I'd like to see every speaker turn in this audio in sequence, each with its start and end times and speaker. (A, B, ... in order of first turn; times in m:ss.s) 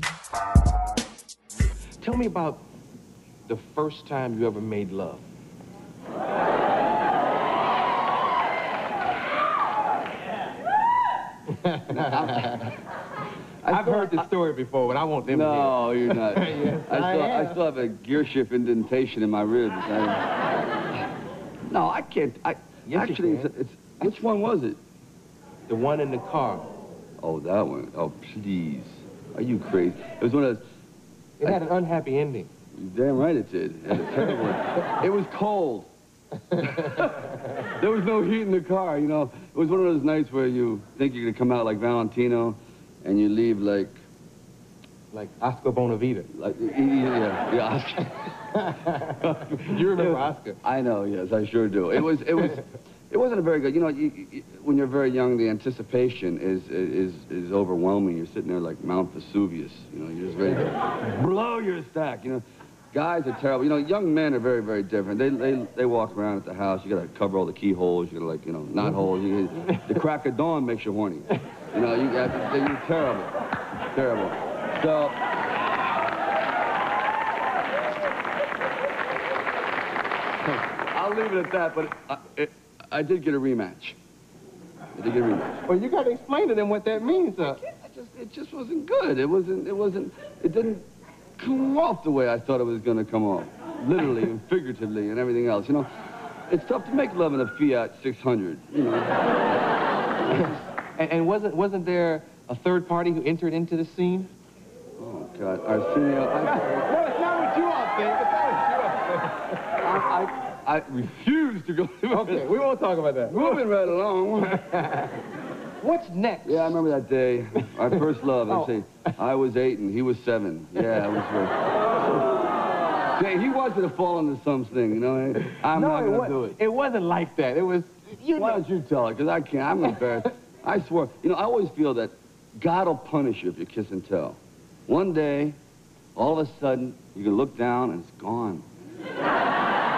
0:02.0-0:02.6 A
0:03.5-0:05.2 A
0:11.5-0:12.7 A
0:11.9-0:12.7 B
0:13.6-0:14.3 B
0:13.6-0:17.6 A
0:15.3-0:20.3 B
0:21.7-0:24.8 B
0:22.9-0:23.5 A
0:25.7-0:26.7 A
0:27.2-0:30.6 B
0:31.4-0:32.5 A
0:32.7-0:35.9 B
0:36.5-0:37.0 A
0:36.6-0:44.0 B
0:45.1-0:46.3 A
0:46.3-1:13.3 B
0:48.6-0:50.6 A
1:13.9-1:15.2 B
1:20.5-1:24.0 B
1:24.9-1:25.7 B
1:25.7-1:27.6 A
1:27.4-1:35.9 B
1:36.5-1:39.4 B
1:40.3-1:40.6 B
1:40.3-1:44.3 A
1:45.0-1:46.9 B
1:46.4-1:49.6 A
1:49.8-1:52.6 B
1:52.1-1:53.7 A
1:53.3-1:55.0 B
1:54.7-1:55.2 A
1:55.8-1:56.8 A
1:56.4-2:02.3 B
1:57.6-1:58.7 A
2:00.9-2:01.1 A
2:03.1-2:06.6 B
2:05.4-2:08.6 A
2:08.4-2:15.6 B
2:09.8-2:10.3 A
2:16.2-2:18.7 B